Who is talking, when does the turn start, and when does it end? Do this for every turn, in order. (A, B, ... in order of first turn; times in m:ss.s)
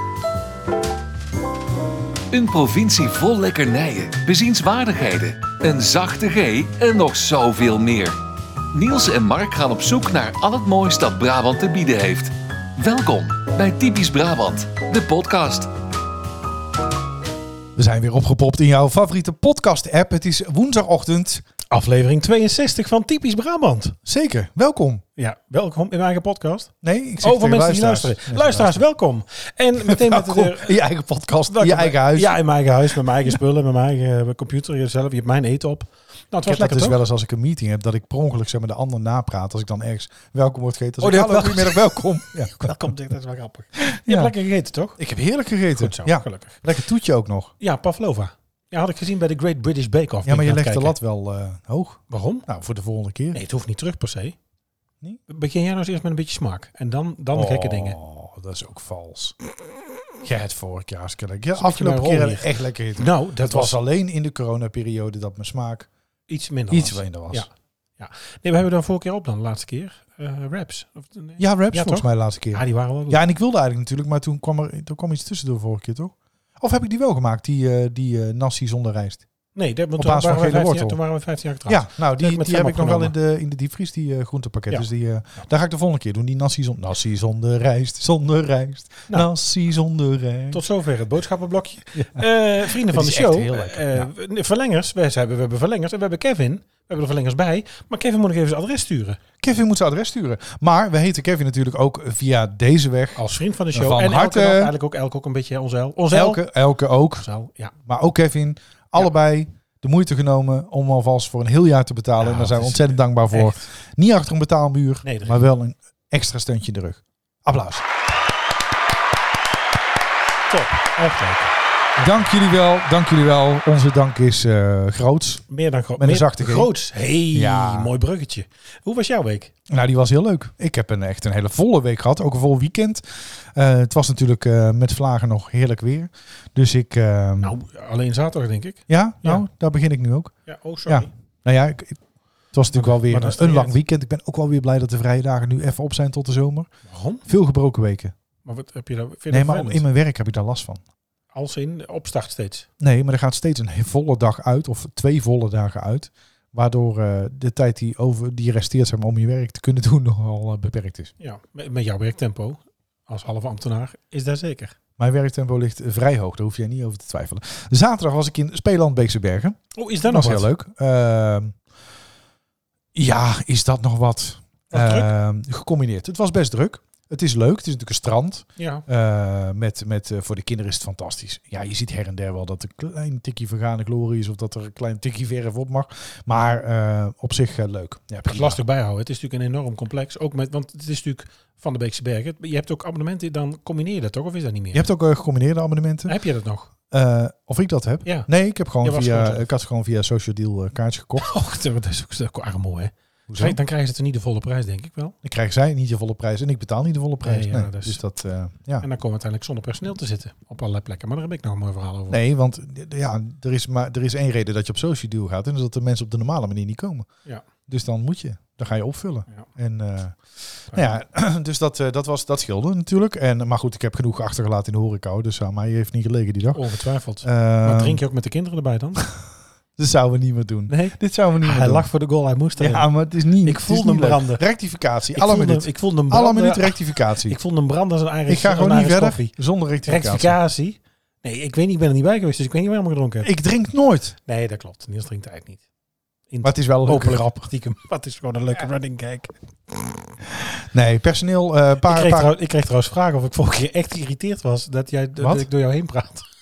0:02.3-0:08.2 A
0:08.7-0:15.7 A
0:17.8-0:21.4 B
0:21.7-0:24.0 C
0:24.0-0:25.0 B
0:25.2-0:30.8 C
0:26.8-0:28.8 B
0:29.9-0:32.4 B
0:31.5-0:37.0 C
0:36.4-0:42.8 B
0:41.0-0:45.0 C
0:43.8-0:44.3 B
0:45.0-0:47.5 B
0:45.7-0:46.6 C
0:47.6-0:50.9 C
0:50.2-0:53.4 B
0:52.1-0:52.4 C
0:53.3-0:54.4 C
0:55.3-0:58.0 C
0:57.3-0:59.4 B
1:00.2-1:05.9 B
1:01.6-1:03.8 C
1:06.3-1:13.2 C
1:06.7-1:07.5 B
1:11.4-1:19.2 B
1:19.5-1:23.1 C
1:20.0-1:21.0 B
1:21.7-1:30.6 B
1:30.5-1:39.2 C
1:31.9-1:34.1 B
1:39.4-1:43.2 B
1:43.2-1:46.4 C
1:43.7-1:44.7 B
1:46.1-1:47.2 B
1:47.1-1:47.7 C
1:47.8-1:57.8 B
1:52.2-1:53.6 C
1:55.0-1:55.4 C
2:00.5-2:02.3 C
2:02.0-2:05.4 B
2:05.5-2:09.5 C
2:06.0-2:06.7 B
2:07.3-2:07.9 B
2:09.7-2:17.5 B
2:17.4-2:19.4 C
2:18.9-2:20.4 B
2:20.4-2:21.1 C
2:20.9-2:22.0 B
2:22.5-2:26.7 B
2:22.7-2:23.8 C
2:26.9-2:27.2 C
2:27.2-2:28.1 B
2:28.4-2:29.8 C
2:29.3-2:30.8 B
2:31.3-2:32.7 C
2:32.8-2:41.1 B
2:41.2-2:44.8 C
2:45.0-2:51.5 B
2:49.7-2:50.5 C
2:52.9-3:08.6 B
2:54.7-2:55.1 C
2:58.6-2:58.8 C
3:08.2-3:14.8 C
3:14.7-3:16.1 B
3:16.0-3:16.7 C
3:16.9-3:21.3 B
3:18.0-3:18.3 C
3:18.8-3:19.5 C
3:21.2-3:25.2 C
3:23.3-3:23.6 B
3:25.2-3:28.8 B
3:27.2-3:28.0 C
3:28.8-3:32.2 C
3:32.1-3:37.1 B
3:37.7-3:40.2 B
3:40.7-3:46.6 B
3:46.5-3:49.0 C
3:47.2-3:48.0 B
3:49.8-3:51.9 B
3:50.7-3:52.9 C
3:52.6-3:57.4 B
3:53.4-3:54.4 C
3:55.1-3:59.3 C
3:58.3-4:00.4 B
3:59.8-4:03.3 C
4:03.2-4:04.2 B
4:04.3-4:05.6 C
4:06.3-4:10.0 C
4:06.4-4:07.5 B
4:10.6-4:12.3 B
4:11.8-4:16.2 C
4:15.2-4:15.5 B